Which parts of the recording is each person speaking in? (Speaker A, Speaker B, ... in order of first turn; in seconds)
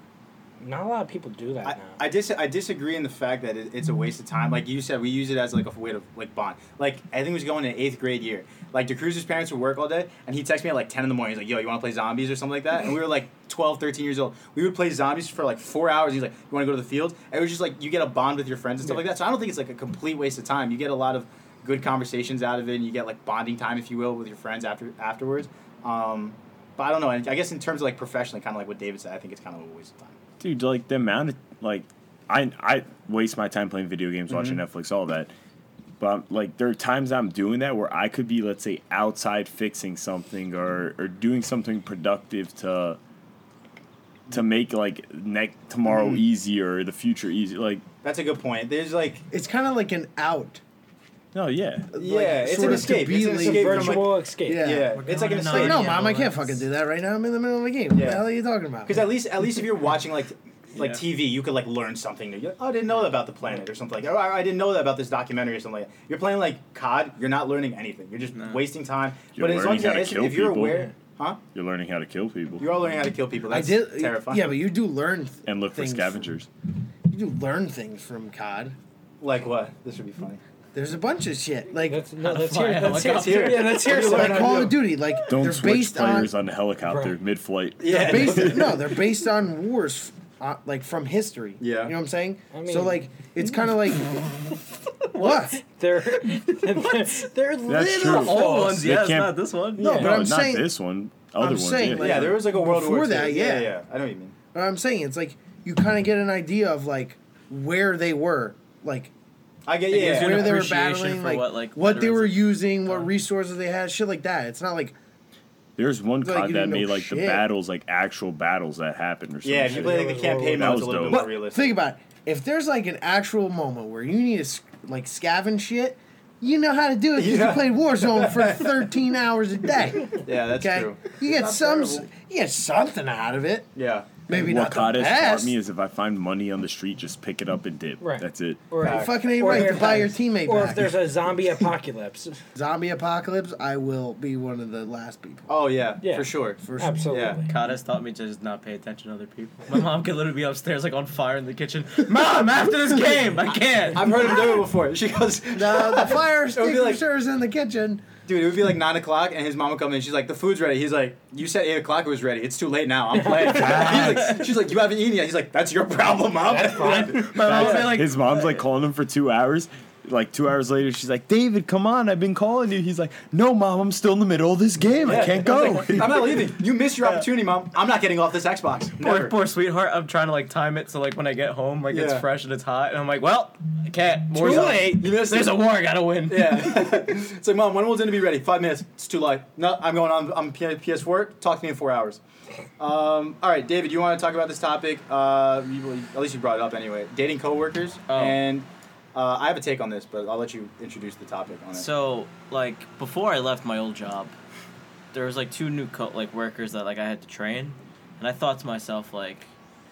Speaker A: 0.6-2.0, 53.1-54.7, 81.9-84.7, 86.8-87.2, 92.5-93.0, 95.2-98.9, 99.8-100.2, 119.7-120.8, 138.0-142.4, 146.0-147.5, 163.1-164.0, 166.4-167.6, 184.3-185.1
Speaker B: 1.6-30.2, 34.3-34.6, 45.9-46.2, 48.0-49.2, 52.0-56.0, 57.9-58.2, 58.8-71.4, 72.6-74.6, 79.2-80.4, 83.0-84.9, 87.8-88.8, 91.6-92.0, 102.0-104.3, 109.7-110.6, 119.4-121.8, 127.2-128.8, 130.1-132.1, 133.8-134.2, 138.8-139.7, 145.5-147.4, 153.5-157.0, 158.3-168.0, 175.0-179.3, 181.9-182.2, 184.4-185.6, 186.3-192.2, 192.8-201.9
Speaker C: 30.4-35.3, 36.0-43.0, 44.3-47.8, 51.3-52.0, 69.3-70.9, 71.5-72.7, 75.5-76.5, 85.3-88.8, 97.7-102.3, 115.8-121.3, 134.3-138.6, 163.4-164.4, 167.3-176.4
Speaker D: 49.3-50.6, 51.9-59.1, 73.5-76.3, 77.1-78.8, 80.7-82.0, 83.8-86.3, 87.9-94.2, 95.1-95.6, 99.8-100.7, 101.4-103.8, 104.5-109.1, 109.9-115.0, 116.2-117.5, 121.1-133.7, 134.3-135.6, 138.8-141.1, 142.6-145.5, 146.6-147.1, 155.5-158.1
Speaker E: 55.0-56.6, 60.8-61.0, 68.3-68.6, 82.2-83.8, 98.0-100.1, 109.9-113.1, 147.5-154.6, 163.8-164.4, 166.8-168.7, 175.1-176.0, 177.0-177.3, 179.0-187.0, 198.1-198.4, 201.8-204.3, 205.1-209.5